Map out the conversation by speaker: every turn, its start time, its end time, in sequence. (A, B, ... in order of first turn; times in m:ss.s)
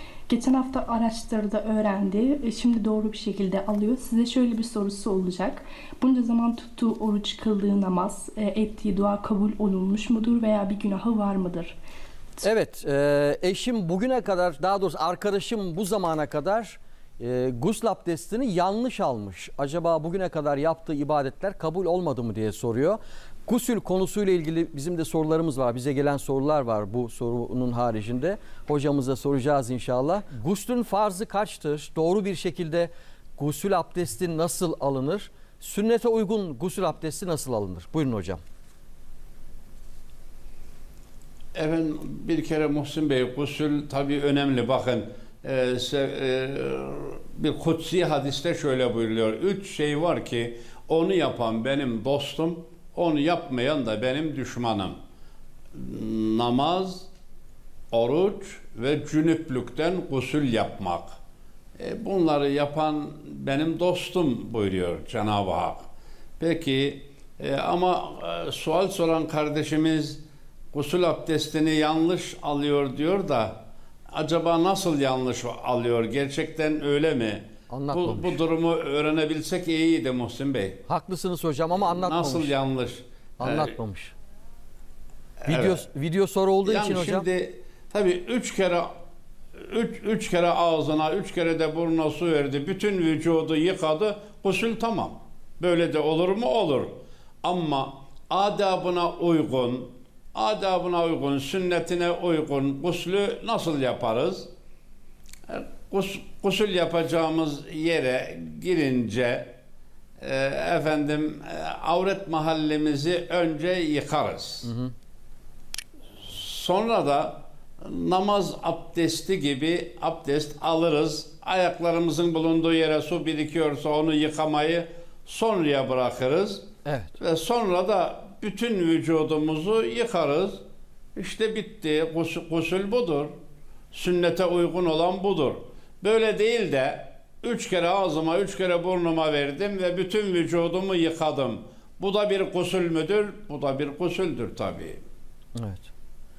0:00.3-0:11.8 A
0:12.4-0:38.4 B
0:41.5-0:55.0 C
0:55.7-0:57.1 C
0:57.9-1:01.1 C
1:01.8-1:05.8 C
1:06.4-1:10.2 C
1:10.7-1:13.6 C
1:14.1-1:20.8 C
1:17.7-1:18.4 B
1:20.9-1:22.5 B
1:21.8-1:23.8 C
1:23.4-1:24.1 B
1:25.4-1:25.8 C
1:25.5-1:27.2 B
1:26.6-1:28.9 C
1:29.6-1:44.5 C
1:45.5-1:49.6 C
1:50.2-1:54.7 C
1:54.6-1:54.9 B
1:56.2-2:06.7 C
2:06.8-2:07.1 B
2:07.2-2:10.6 C
2:11.2-2:13.3 C
2:13.9-2:25.0 C
2:25.5-2:25.9 B